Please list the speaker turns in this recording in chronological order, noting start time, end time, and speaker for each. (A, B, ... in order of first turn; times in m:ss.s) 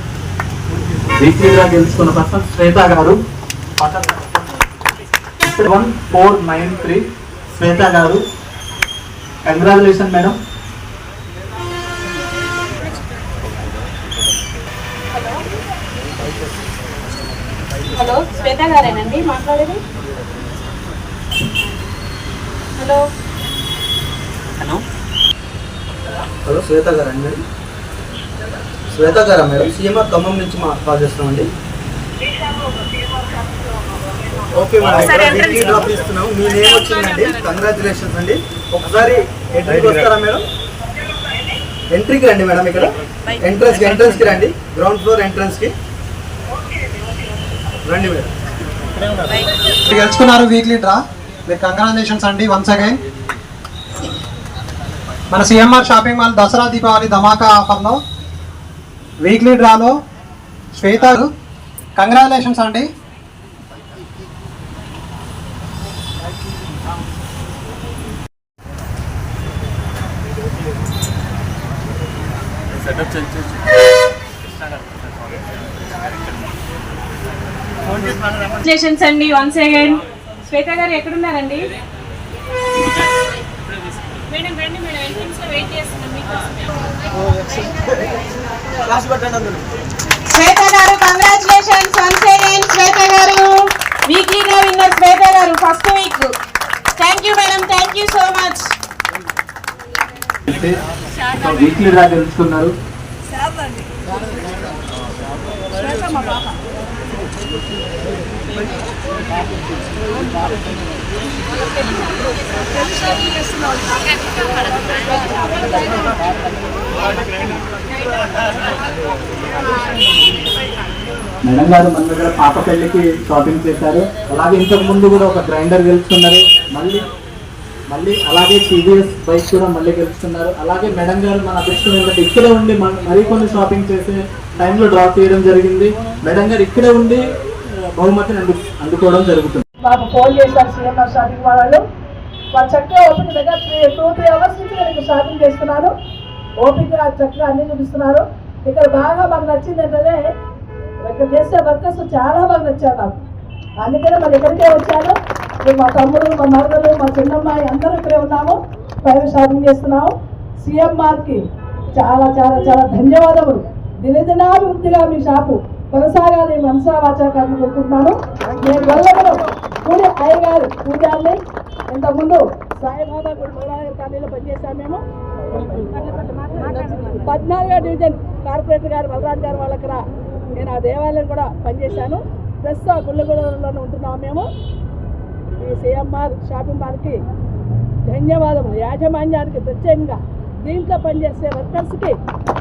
0:01.2-0:03.2 A
0:03.8-0:04.2 A
0:05.4-0:08.2 A
0:09.4-0:10.4 A
0:15.1-0:15.4 B
0:17.9-0:19.8 B
0:22.8-0:23.0 B
0:26.4-0:27.4 C
0:28.9-0:31.5 C
0:34.5-0:40.4 C
0:35.2-0:35.6 B
0:41.9-0:45.7 C
0:47.8-0:48.3 C
0:49.8-0:53.0 D
0:55.3-0:58.0 D
0:59.2-0:59.9 D
1:00.8-1:01.3 D
1:02.0-1:02.9 D
1:18.6-1:21.7 B
1:24.3-1:26.6 B
1:27.2-1:28.2 B
1:29.0-1:29.4 B
1:30.3-1:36.3 B
1:37.0-1:38.8 B
1:40.5-1:40.8 A
1:41.3-1:42.7 A
1:45.8-1:46.5 E
1:51.8-1:52.3 B
1:52.8-1:54.0 B
1:55.1-1:56.1 B
2:01.4-2:07.0 A
2:07.9-2:17.2 A
2:17.9-2:19.6 A
2:19.8-2:21.8 E
2:22.5-2:25.9 E
2:26.6-2:30.4 E
2:31.0-2:33.2 E
2:33.8-2:55.0 E
2:55.7-3:04.5 E
3:05.5-3:07.2 E
3:08.0-3:12.2 E